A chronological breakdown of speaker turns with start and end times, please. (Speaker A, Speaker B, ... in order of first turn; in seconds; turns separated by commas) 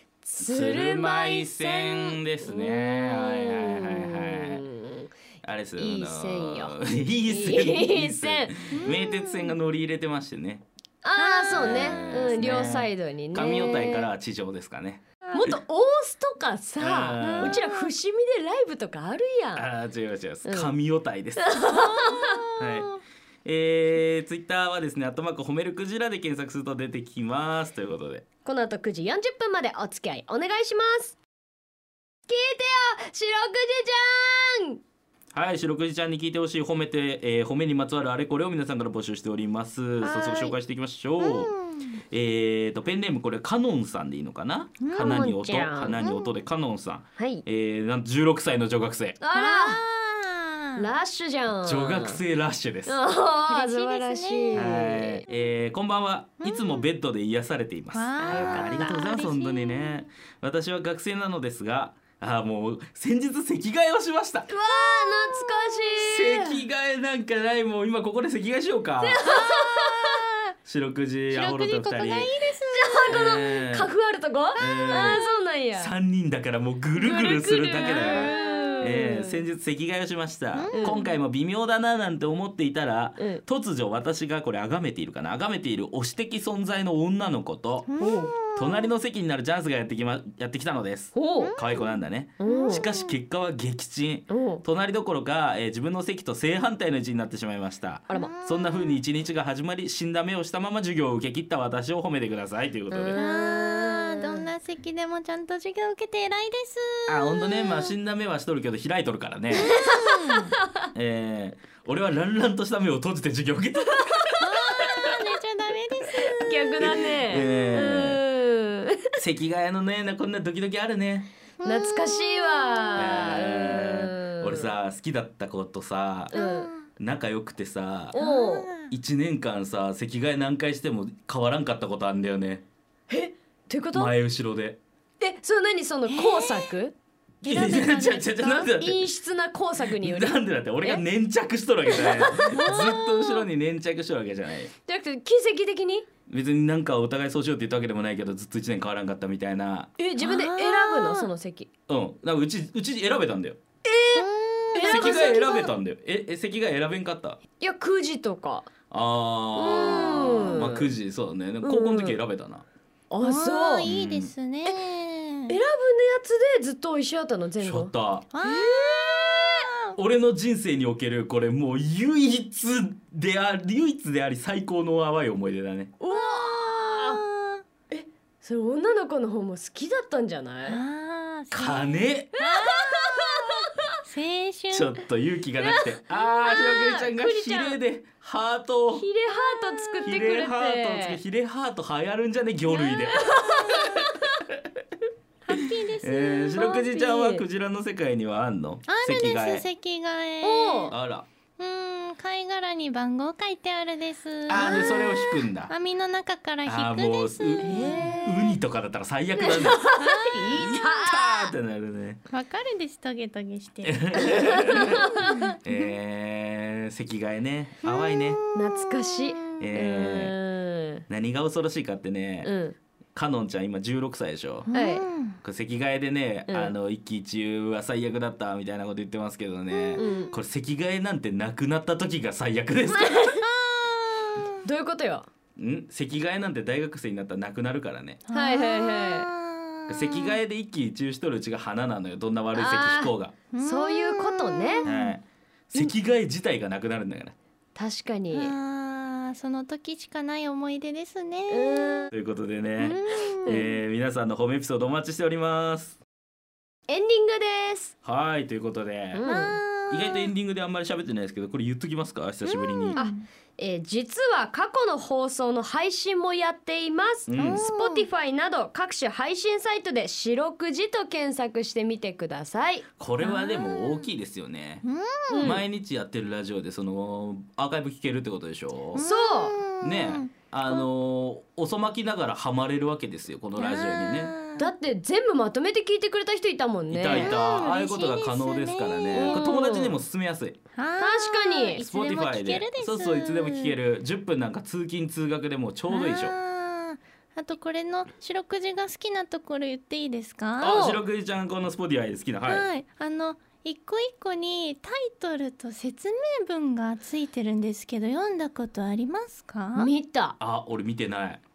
Speaker A: 0.2-5.1, Speaker B: 0.4-4.6, Speaker B: 5.4-10.6, Speaker A: 5.8-6.8, Speaker A: 7.3-8.8, Speaker C: 8.7-9.6, Speaker A: 11.0-14.1, Speaker C: 11.2-12.5, Speaker B: 11.5-15.0, Speaker A: 15.3-19.7, Speaker B: 16.8-17.6, Speaker C: 17.2-17.9, Speaker B: 19.5-21.5, Speaker A: 20.4-20.7, Speaker A: 21.4-22.4, Speaker C: 21.6-23.0, Speaker B: 22.6-22.9, Speaker B: 23.4-28.2, Speaker A: 28.4-31.1, Speaker A: 32.3-34.8, Speaker B: 35.3-41.5, Speaker C: 40.0-40.5, Speaker C: 41.2-42.0, Speaker B: 42.1-49.2, Speaker C: 44.8-45.1, Speaker A: 44.9-46.0, Speaker C: 46.0-46.4, Speaker A: 47.2-47.4, Speaker A: 49.2-49.8, Speaker C: 49.3-50.8, Speaker A: 50.8-52.2, Speaker B: 51.6-53.0, Speaker A: 52.9-55.2, Speaker C: 53.5-54.8, Speaker B: 54.5-64.5, Speaker C: 56.4-56.9, Speaker C: 57.9-60.1, Speaker A: 58.2-58.9, Speaker A: 64.5-66.6, Speaker B: 66.0-69.2, Speaker A: 69.0-70.2, Speaker C: 69.2-70.5, Speaker B: 70.7-72.3, Speaker C: 71.3-73.2, Speaker A: 72.7-75.9, Speaker B: 73.1-73.9, Speaker C: 74.5-75.4, Speaker B: 74.6-75.2, Speaker B: 75.7-103.2, Speaker A: 77.0-79.4, Speaker C: 77.8-78.9, Speaker C: 80.5-81.2, Speaker A: 80.7-81.0, Speaker C: 87.9-88.9, Speaker A: 88.0-88.3, Speaker A: 91.1-91.5, Speaker C: 91.4-93.2, Speaker A: 92.4-92.9, Speaker A: 94.3-94.6, Speaker C: 98.1-99.0, Speaker A: 102.9-104.4, Speaker C: 103.1-107.9, Speaker B: 107.1-109.8, Speaker C: 109.6-110.5, Speaker A: 109.7-110.5, Speaker B: 110.9-115.1, Speaker C: 114.4-116.6, Speaker B: 116.2-118.2, Speaker A: 116.3-119.2, Speaker B: 119.2-121.3, Speaker C: 121.6-123.2, Speaker A: 121.6-124.7, Speaker B: 123.0-126.3, Speaker A: 126.3-126.7, Speaker C: 126.3-126.9, Speaker B: 127.0-128.1, Speaker A: 128.1-128.7, Speaker C: 128.1-128.9, Speaker B: 128.9-132.6, Speaker A: 133.1-134.1, Speaker B: 133.9-134.8, Speaker A: 135.2-141.0, Speaker C: 136.1-136.8, Speaker C: 137.4-138.3, Speaker B: 137.5-139.1, Speaker B: 140.0-144.7, Speaker A: 141.9-142.9, Speaker C: 142.5-143.4, Speaker A: 144.8-146.1, Speaker B: 146.3-149.9, Speaker A: 150.0-151.7, Speaker C: 150.2-151.3, Speaker B: 151.9-153.6, Speaker A: 153.8-155.7, Speaker C: 154.2-155.3, Speaker B: 154.9-157.4, Speaker A: 157.6-158.7, Speaker B: 158.9-162.6, Speaker A: 159.5-160.9, Speaker C: 159.7-160.6, Speaker A: 161.6-162.2, Speaker A: 163.1-163.9, Speaker C: 163.2-165.5, Speaker B: 163.8-164.3, Speaker A: 165.5-167.9, Speaker B: 167.6-168.3, Speaker C: 168.3-169.9, Speaker A: 168.4-169.7, Speaker B: 169.9-175.9, Speaker A: 176.0-177.2, Speaker C: 176.1-177.6, Speaker A: 177.9-180.8, Speaker C: 180.6-185.0, Speaker B: 181.5-182.4, Speaker A: 182.4-183.7, Speaker B: 184.7-189.1, Speaker A: 185.6-187.7, Speaker C: 187.2-187.6, Speaker A: 188.9-191.2, Speaker C: 189.3-190.2, Speaker B: 190.0-194.6, Speaker C: 192.7-193.9, Speaker A: 193.1-194.2, Speaker C: 195.4-196.8, Speaker B: 195.5-199.7, Speaker A: 196.5-197.4, Speaker C: 198.9-200.9, Speaker A: 200.4-200.9, Speaker B: 200.9-201.3, Speaker C: 201.6-208.6, Speaker B: 204.5-205.7, Speaker B: 206.6-209.9, Speaker A: 207.6-208.1, Speaker A: 209.4-211.5, Speaker C: 210.0-210.6, Speaker B: 210.5-212.2, Speaker C: 212.3-215.6, Speaker B: 213.8-215.1, Speaker A: 214.2-215.4, Speaker B: 215.6-218.4, Speaker C: 217.8-219.6, Speaker A: 218.5-221.1, Speaker B: 219.6-220.3, Speaker B: 221.1-222.5, Speaker A: 222.4-222.8, Speaker B: 223.1-224.7, Speaker C: 224.7-225.4, Speaker A: 224.7-225.0, Speaker B: 225.4-233.4, Speaker A: 226.5-226.7, Speaker C: 229.7-230.3, Speaker A: 230.0-230.3, Speaker A: 232.9-233.4, Speaker C: 233.5-234.6, Speaker A: 234.6-235.3, Speaker B: 235.6-238.2, Speaker C: 238.2-240.4, Speaker A: 238.3-239.3, Speaker B: 239.9-243.3, Speaker A: 242.5-244.9, Speaker C: 243.5-245.2, Speaker B: 244.8-247.3, Speaker A: 247.7-248.5, Speaker C: 248.3-252.1, Speaker A: 251.5-252.1, Speaker B: 252.1-255.9, Speaker C: 252.8-253.6, Speaker A: 253.4-253.8, Speaker A: 256.9-257.9, Speaker B: 258.0-259.2, Speaker A: 259.1-259.6, Speaker C: 259.2-260.3, Speaker B: 259.9-263.0, Speaker C: 262.4-263.2, Speaker A: 262.9-272.9, Speaker B: 267.3-267.6, Speaker C: 267.3-268.1, Speaker B: 273.0-274.8, Speaker C: 273.2-274.1, Speaker C: 274.8-275.6, Speaker A: 275.3-275.6, Speaker B: 275.4-279.0, Speaker C: 278.9-280.8, Speaker A: 279.0-279.6, Speaker B: 279.8-284.3, Speaker C: 283.6-284.7, Speaker A: 284.6-287.3, Speaker B: 286.9-290.6, Speaker C: 287.1-289.5, Speaker A: 289.1-290.0, Speaker C: 290.8-293.8, Speaker A: 291.0-291.8, Speaker B: 291.8-296.3, Speaker C: 295.9-300.8, Speaker B: 300.6-302.6, Speaker A: 300.6-301.0, Speaker C: 302.4-309.9, Speaker A: 309.7-310.4, Speaker B: 310.4-311.4